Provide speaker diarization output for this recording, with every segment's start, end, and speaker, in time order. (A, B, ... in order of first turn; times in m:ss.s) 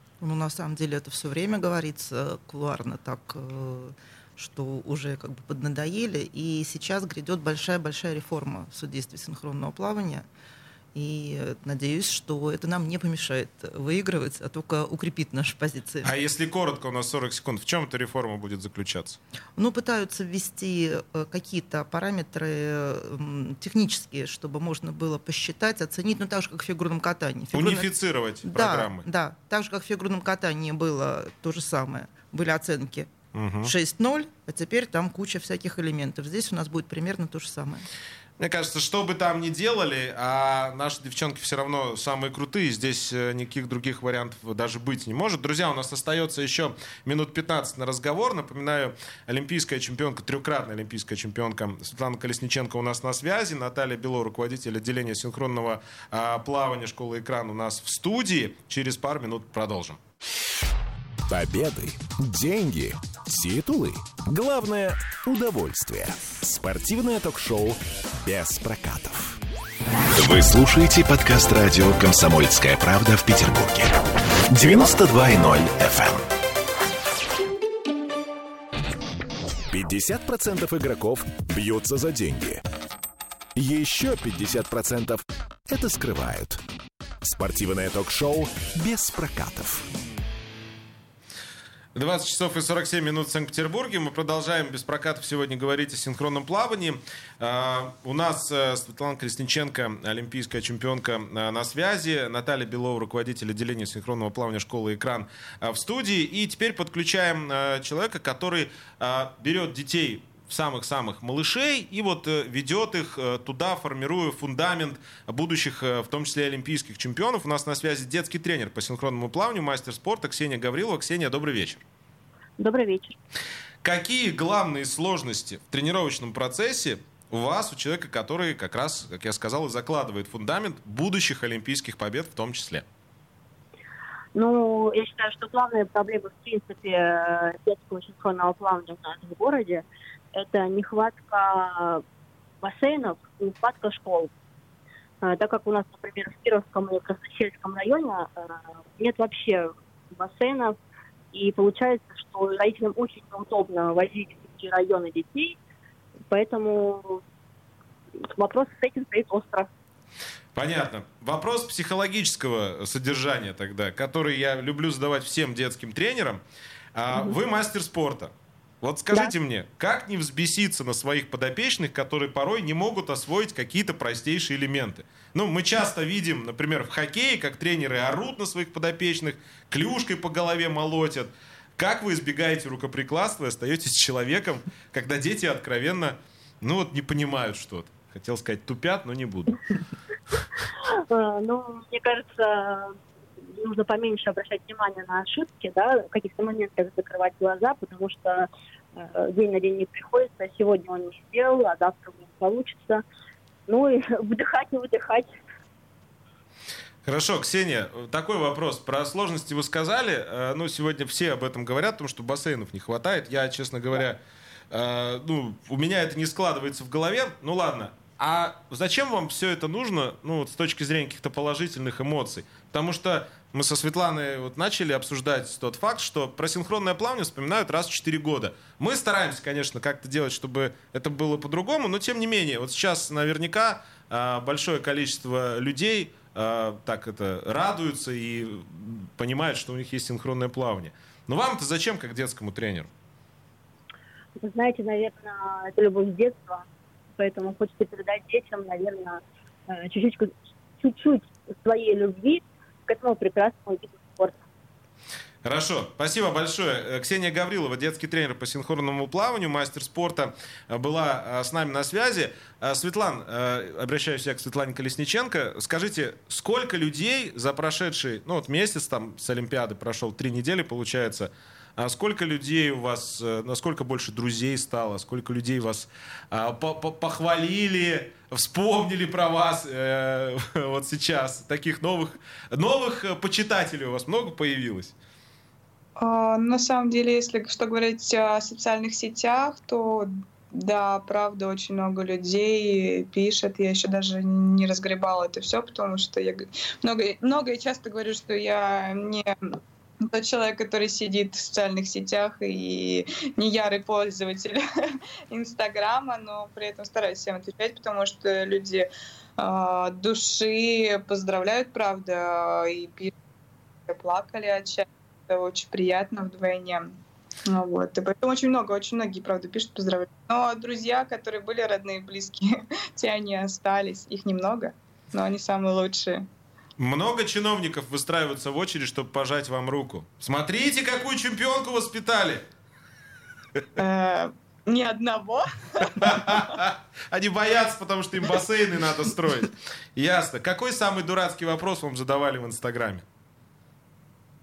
0:00.2-0:10.2 A
0:10.9-0:16.1 A
0:16.0-0:19.2 B
0:19.6-0:27.9 A
0:27.5-0:29.1 B
0:28.4-0:33.1 A
0:33.3-0:33.7 B
0:33.6-0:37.9 A
0:38.4-1:00.0 B
1:01.3-1:09.4 C
1:10.1-1:14.0 C
1:14.5-1:16.3 C
1:19.7-1:22.6 C
1:23.6-1:26.6 C
1:27.2-1:29.9 C
1:32.0-2:01.8 B
2:02.6-2:03.2 D
2:03.8-2:12.9 B
2:14.4-2:22.0 D
2:22.6-2:24.3 D
2:25.2-2:30.8 D
2:31.3-2:35.6 D
2:36.3-2:37.2 D
2:38.2-2:39.7 D
2:40.6-2:46.4 B
2:47.0-3:09.6 B
3:10.8-3:13.0 D
3:13.6-3:23.0 D
3:23.7-3:25.3 D
3:27.0-3:34.2 B
3:34.7-4:02.9 B
4:04.4-4:14.4 D
4:15.4-4:45.0 B
4:46.0-4:59.6 E
5:00.1-5:13.2 E
5:13.9-5:26.3 E
5:26.8-5:32.5 B
5:33.8-5:36.6 E
5:35.9-5:43.0 B